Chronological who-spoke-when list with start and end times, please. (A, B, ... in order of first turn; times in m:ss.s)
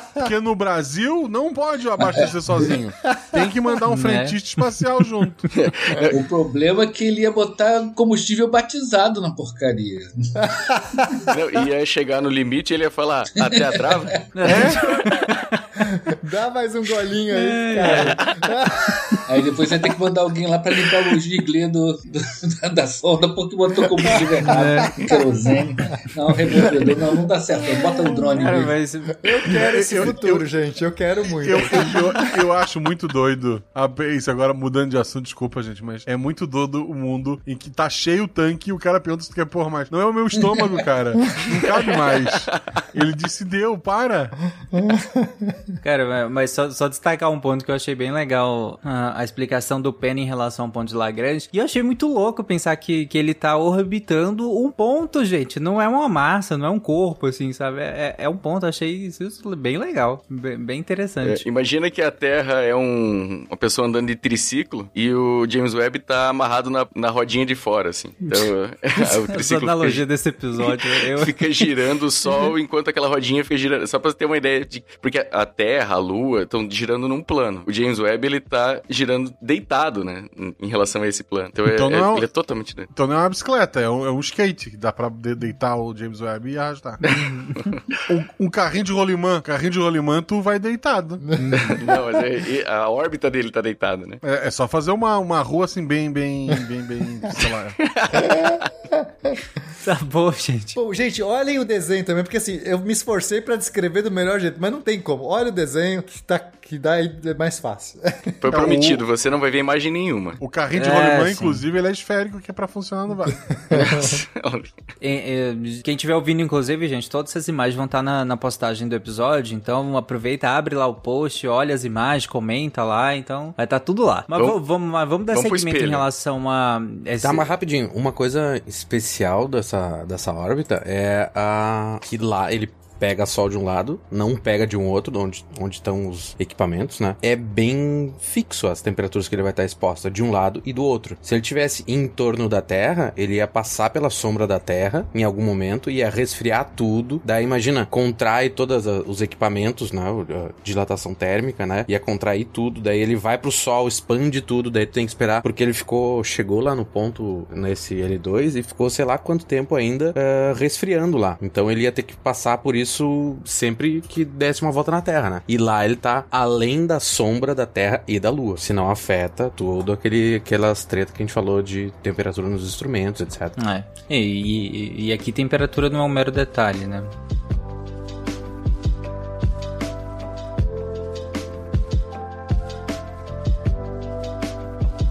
0:00.2-0:05.5 A
0:03.9-0:04.4 B
0:05.6-0:06.2 C
0:06.1-0:10.1 D
0:10.6-0:11.2 E
0:11.3-0:14.2 C
0:13.4-0:14.2 D
0:14.4-0:15.6 B
0:15.8-0:19.2 E
0:17.3-0:18.2 B
0:19.3-0:28.8 D
0:24.0-0:24.4 E
0:24.5-0:24.9 B
0:26.5-0:27.1 E
0:27.8-0:28.3 E
0:28.4-0:29.7 B
0:29.2-0:32.4 E
0:29.7-0:30.5 A
0:31.4-0:44.4 A
0:44.8-0:45.6 E
0:45.8-1:01.4 B
1:01.2-1:10.0 C
1:08.2-1:11.6 B
1:11.2-1:22.9 C
1:21.6-1:22.3 A
1:22.9-1:27.1 A
1:28.1-1:31.2 A
1:31.3-1:32.0 E
1:31.4-1:31.7 B
1:31.7-1:34.2 C
1:34.2-1:37.8 A
1:37.8-1:38.3 C
1:38.2-1:39.3 E
1:39.8-1:40.8 B
1:40.8-1:48.3 E
1:48.4-1:50.4 C
1:48.5-1:49.0 A
1:50.4-1:53.4 A
1:50.7-1:51.6 B
1:53.7-1:54.1 E
1:53.7-1:54.7 C
1:55.0-2:07.5 B
2:04.3-2:04.6 C
2:05.3-2:06.1 C
2:07.2-2:53.6 F
2:53.6-2:57.1 B